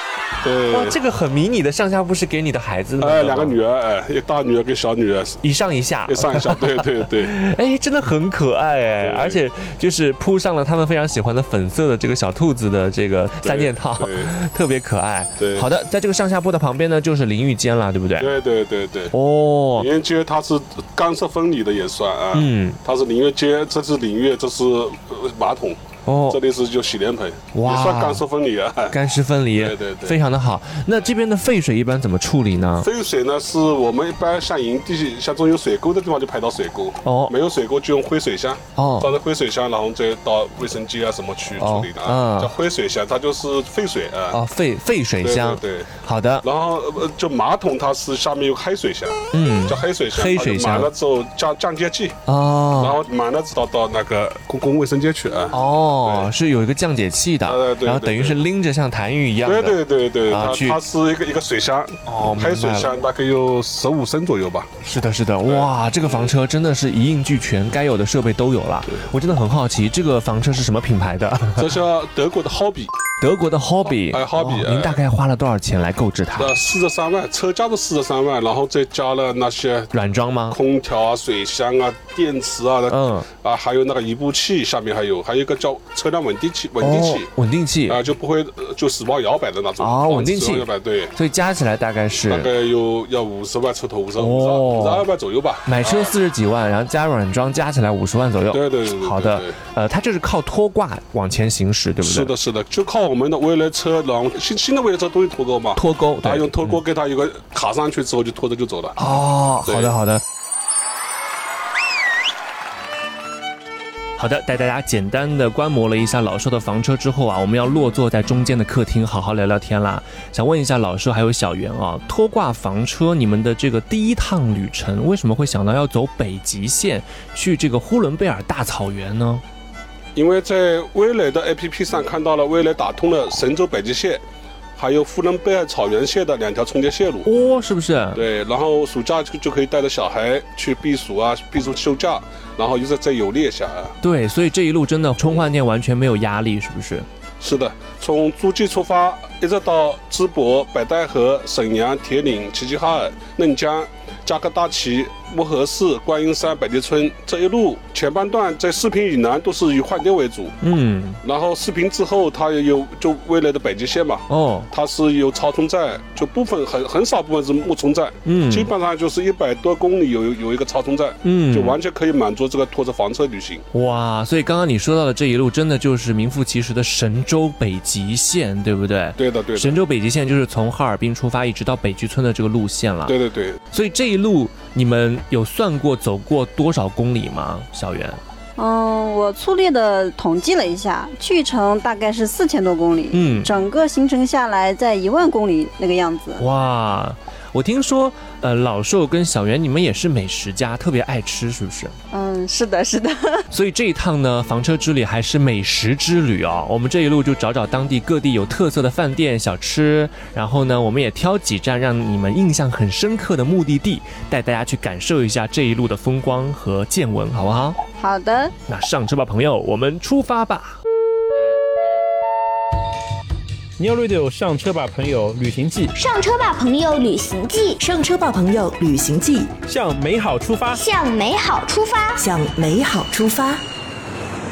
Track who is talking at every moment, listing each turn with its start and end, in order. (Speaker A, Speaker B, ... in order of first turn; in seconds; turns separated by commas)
Speaker A: 0.4-1.0, Speaker B: 0.7-3.6, Speaker A: 3.0-5.4, Speaker B: 5.4-18.3, Speaker A: 6.1-7.3, Speaker A: 9.0-9.4, Speaker A: 13.4-14.3, Speaker A: 15.4-15.7, Speaker A: 18.2-19.1, Speaker B: 19.1-19.9, Speaker A: 19.8-29.0, Speaker B: 22.3-22.8, Speaker B: 26.1-26.4, Speaker B: 27.5-28.2, Speaker B: 28.9-32.9, Speaker A: 29.6-30.2, Speaker A: 32.8-44.4, Speaker B: 37.0-37.3, Speaker B: 38.8-39.1, Speaker B: 41.6-42.5, Speaker B: 44.3-46.5, Speaker A: 45.2-52.2, Speaker B: 49.3-50.9, Speaker B: 52.3-53.0, Speaker A: 52.7-56.3, Speaker B: 55.5-60.8, Speaker A: 57.4-58.4, Speaker A: 59.4-64.7, Speaker B: 62.0-62.9, Speaker B: 64.8-71.8, Speaker A: 65.5-66.3, Speaker A: 71.5-73.0, Speaker B: 73.2-76.6, Speaker A: 74.0-75.0, Speaker A: 76.3-79.9, Speaker B: 79.9-80.6, Speaker A: 80.5-87.3, Speaker B: 82.9-83.3, Speaker B: 86.8-88.0, Speaker A: 87.9-91.1, Speaker B: 89.8-92.5, Speaker A: 92.3-96.2, Speaker B: 94.2-95.0, Speaker B: 95.7-102.3, Speaker A: 98.5-99.5, Speaker A: 102.0-109.0, Speaker B: 105.8-106.8, Speaker B: 109.0-110.2, Speaker A: 109.7-109.9, Speaker B: 114.2-129.4, Speaker A: 130.2-134.2, Speaker A: 134.8-137.3, Speaker B: 137.2-138.2, Speaker A: 138.1-143.9, Speaker B: 144.0-147.1, Speaker A: 147.4-160.6, Speaker B: 160.6-161.2, Speaker A: 161.2-173.7, Speaker B: 164.3-164.7, Speaker B: 168.2-168.7, Speaker B: 171.2-171.8, Speaker B: 173.7-183.2, Speaker A: 179.2-179.8, Speaker A: 183.1-183.6, Speaker B: 183.7-188.2, Speaker C: 188.6-196.4, Speaker B: 193.1-193.5, Speaker B: 196.4-201.9, Speaker C: 202.1-203.4, Speaker B: 203.5-217.8, Speaker C: 218.0-218.5, Speaker B: 218.7-220.8, Speaker D: 223.8-225.9, Speaker E: 225.9-227.8, Speaker F: 227.8-229.5, Speaker D: 229.7-230.8, Speaker E: 230.7-232.2, Speaker F: 232.2-233.6